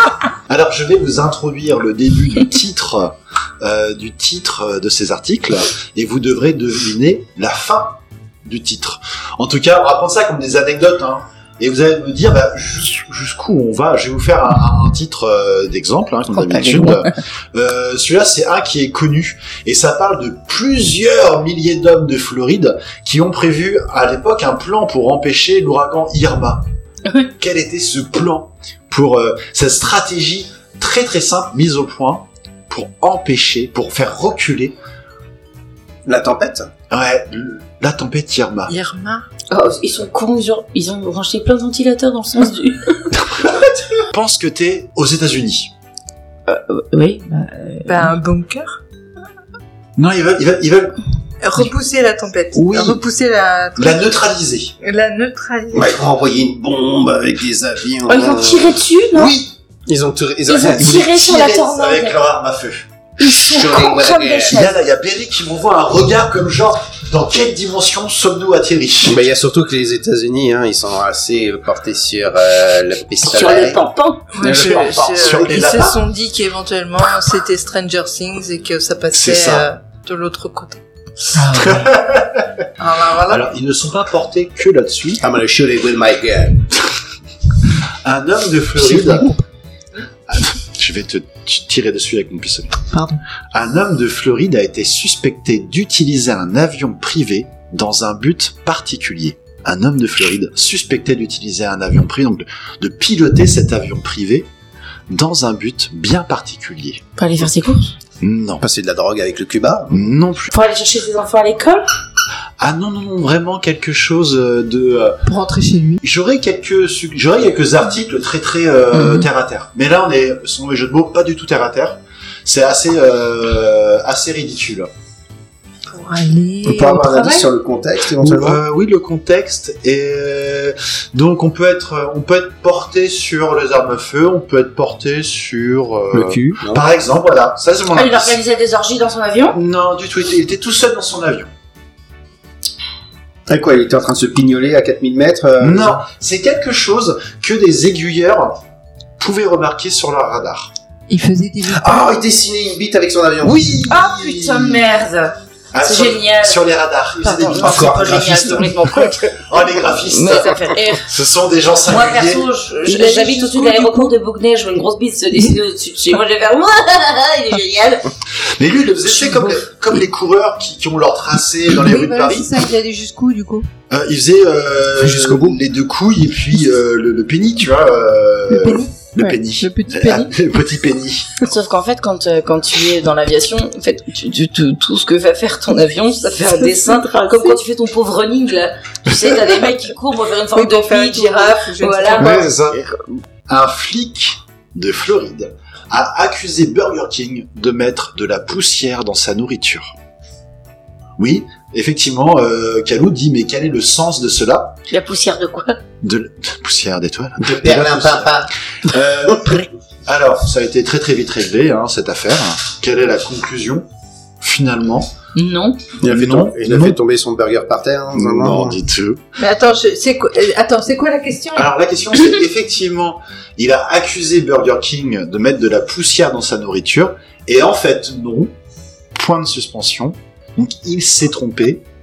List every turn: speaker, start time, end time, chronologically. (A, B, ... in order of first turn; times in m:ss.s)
0:00.5-0:26.7 A
0:16.4-0:17.1 B
0:27.1-0:27.3 B
0:27.4-0:34.8 A
0:36.0-0:36.7 C
0:36.9-0:38.7 A
0:38.7-0:39.3 D
0:39.5-0:43.1 B
0:44.1-0:45.7 A
0:46.5-0:48.1 B
0:47.8-0:48.8 D
0:50.0-0:51.0 A
0:51.4-0:54.1 D
0:52.5-0:53.0 A
0:53.8-0:54.7 A
0:54.8-0:56.0 D
0:55.7-0:58.8 C
0:58.1-0:59.4 B
0:59.1-0:59.5 A
0:59.9-1:01.1 C
1:00.5-1:02.2 B
1:00.7-1:02.9 A
1:03.2-1:04.7 B
1:03.3-1:04.7 C
1:04.5-1:09.2 A
1:09.1-1:13.8 C
1:13.2-1:14.3 B
1:14.3-1:20.8 D
1:14.4-1:15.5 C
1:14.4-1:16.0 A
1:19.1-1:19.7 A
1:21.3-1:21.9 B
1:21.5-1:22.7 A
1:22.8-1:23.5 D
1:23.2-1:25.2 A
1:25.2-1:26.7 C
1:28.0-1:29.3 A
1:28.8-1:29.4 D
1:30.3-1:32.8 A
1:32.9-1:33.2 D
1:33.5-1:44.5 A
1:45.1-1:47.0 A
1:47.2-1:48.0 B
1:48.2-1:48.6 A
1:48.6-1:50.0 C
1:49.9-1:50.5 A
1:50.5-1:51.9 B
1:52.6-1:55.2 A
1:55.3-1:56.0 D
1:56.0-2:04.9 A
1:58.9-1:59.3 B
2:05.9-2:07.5 D
2:06.6-2:08.6 C
2:08.2-2:18.4 A
2:16.1-2:16.8 C
2:17.9-2:19.6 B
2:19.5-2:21.5 A
2:23.5-2:26.0 C
2:25.6-2:28.6 A
2:29.2-2:30.7 A
2:31.1-2:32.1 D
2:31.6-2:33.7 C
2:33.4-2:34.8 A
2:33.9-2:36.6 B
2:35.7-2:42.5 A
2:37.2-2:39.3 B
2:37.4-2:38.7 C
2:40.1-2:41.1 B
2:41.9-2:48.1 B
2:42.8-2:44.1 D
2:48.4-2:52.5 A
2:49.1-2:49.6 B
2:51.8-2:53.7 D
2:53.9-3:01.5 A
2:55.0-2:55.6 C
2:58.5-3:00.4 D
3:01.4-3:12.7 B
3:06.8-3:07.6 D
3:10.5-3:12.4 D
3:12.2-3:12.8 A
3:12.2-3:12.8 C
3:13.5-3:20.0 A
3:21.2-3:24.8 A
3:24.9-3:25.8 B
3:26.0-3:33.9 A
3:27.4-3:28.5 C
3:34.4-3:35.1 A
3:35.4-3:35.8 B
3:36.0-3:37.0 A
3:36.0-3:38.8 C
3:38.1-3:39.2 A
3:39.4-3:41.7 D
3:41.6-3:48.5 A
3:49.2-3:51.8 A